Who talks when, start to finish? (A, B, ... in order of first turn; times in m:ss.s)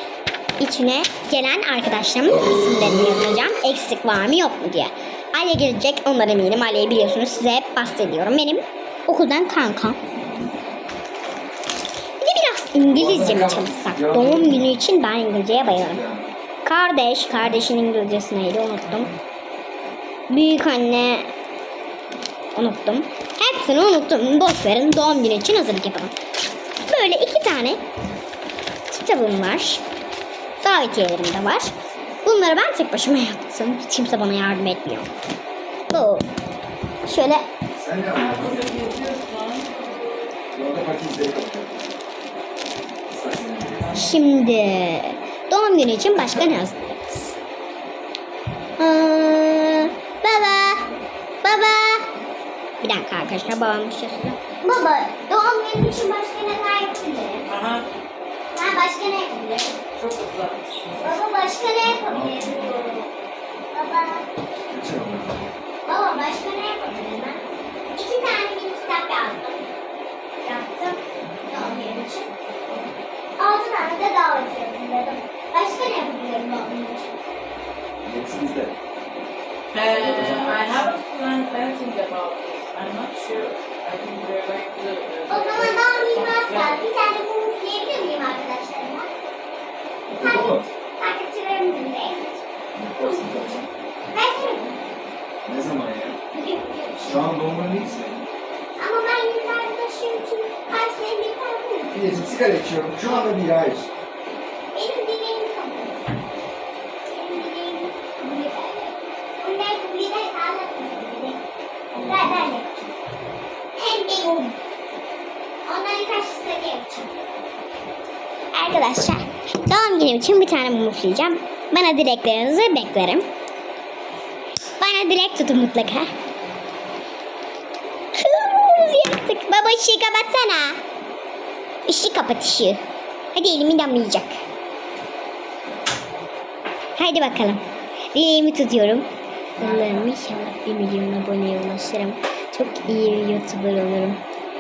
0:00.6-0:10.0 A
0:12.2-0:16.0 A
0:12.9-0:14.7 B
0:15.7-0:16.3 B
0:16.6-0:19.1 A
0:20.3-0:21.3 A
0:22.6-0:26.1 A
0:26.9-0:27.8 A
0:28.9-0:29.8 A
0:30.6-0:31.7 A
0:32.2-0:35.1 A
0:35.9-0:36.2 A
0:37.1-0:37.5 A
0:37.7-0:39.0 B
0:38.1-0:40.3 C
0:40.5-0:41.8 B
0:43.1-0:44.1 B
0:43.9-0:47.4 A
0:48.8-0:50.9 A
0:51.4-0:52.1 A
0:52.8-0:57.5 A
0:57.5-0:57.9 C
0:58.5-0:59.8 A
1:00.0-1:01.2 C
1:01.0-1:03.1 A
1:02.1-1:02.7 B
1:03.7-1:04.3 A
1:04.7-1:05.5 B
1:05.9-1:07.4 A
1:07.9-1:09.7 A
1:10.4-1:12.3 A
1:13.4-1:17.2 A
1:18.0-1:18.8 B
1:19.7-1:26.8 C
1:19.8-1:20.8 B
1:25.3-1:29.1 A
1:30.1-1:30.7 B
1:30.2-1:32.4 A
1:32.8-1:33.7 B
1:33.0-1:34.8 A
1:35.4-1:36.2 B
1:36.3-1:37.2 A
1:37.0-1:38.2 B
1:38.8-1:42.0 A
1:41.9-1:43.9 B
1:44.7-1:46.2 A
1:47.1-1:52.9 A
1:53.8-1:54.6 A
1:55.6-1:57.1 A
1:58.5-2:03.3 A
2:04.8-2:06.1 A
2:08.1-2:10.8 A
2:11.9-2:12.8 A
2:13.3-2:14.4 A
2:17.0-2:17.6 A
2:18.1-2:24.2 A